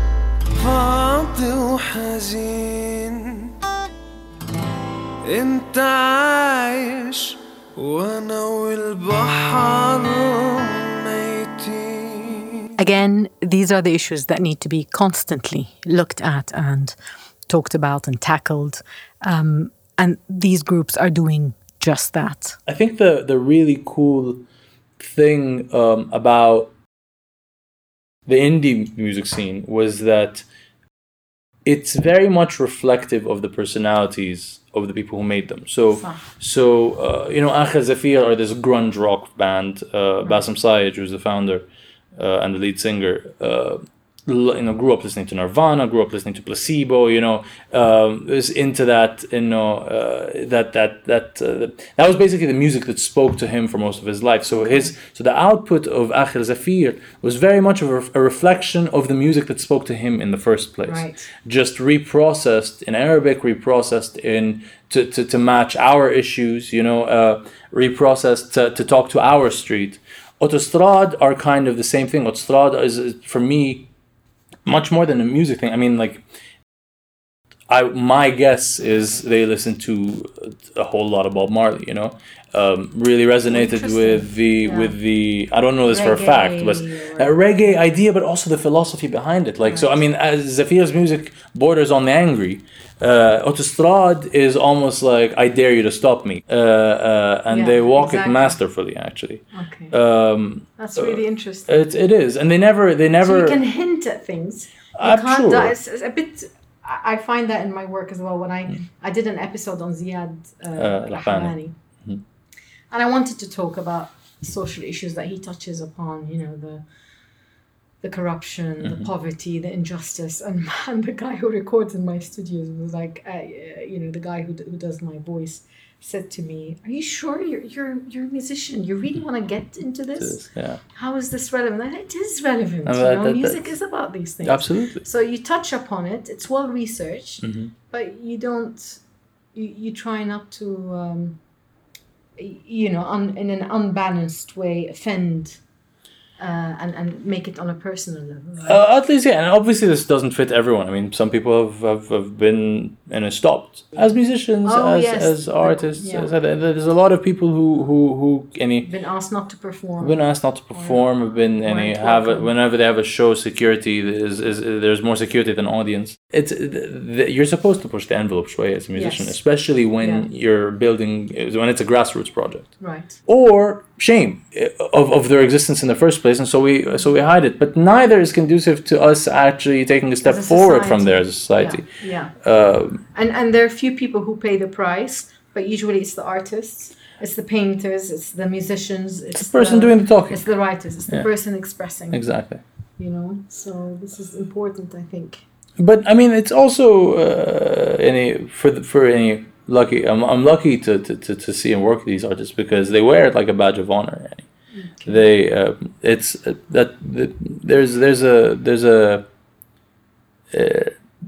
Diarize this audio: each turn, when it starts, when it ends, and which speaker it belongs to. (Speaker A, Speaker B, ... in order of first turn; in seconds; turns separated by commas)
Speaker A: 0.6-3.5, Speaker A: 5.2-12.7, Speaker B: 12.8-16.9, Speaker B: 17.5-22.6, Speaker C: 22.7-24.4, Speaker C: 25.0-26.7, Speaker C: 28.3-30.4, Speaker C: 31.6-73.9, Speaker B: 35.9-36.2, Speaker B: 54.5-54.9, Speaker B: 60.8-61.3, Speaker C: 74.7-76.2, Speaker C: 77.7-103.6, Speaker B: 83.5-85.0, Speaker B: 85.9-87.8, Speaker B: 89.6-90.0, Speaker B: 97.5-98.6, Speaker B: 99.5-99.9, Speaker B: 100.8-101.8, Speaker B: 103.2-111.8, Speaker C: 105.0-105.8, Speaker C: 110.8-112.2, Speaker B: 112.9-116.8, Speaker B: 118.0-130.4, Speaker C: 130.2-130.8, Speaker B: 130.9-139.0, Speaker C: 132.8-133.7, Speaker C: 134.4-135.0, Speaker C: 137.4-137.7, Speaker B: 139.5-141.4, Speaker B: 142.4-145.6, Speaker B: 146.4-148.8, Speaker C: 148.6-158.9, Speaker B: 154.6-156.3, Speaker B: 158.8-162.5, Speaker C: 160.0-181.9, Speaker B: 168.9-169.4, Speaker B: 170.0-170.3, Speaker B: 172.8-173.2, Speaker B: 180.2-182.3, Speaker C: 182.4-183.0, Speaker B: 183.1-192.3, Speaker C: 189.3-190.4, Speaker C: 192.1-192.6, Speaker B: 193.0-195.4, Speaker C: 195.8-204.5, Speaker B: 204.7-205.3, Speaker C: 205.1-209.3, Speaker C: 210.5-210.9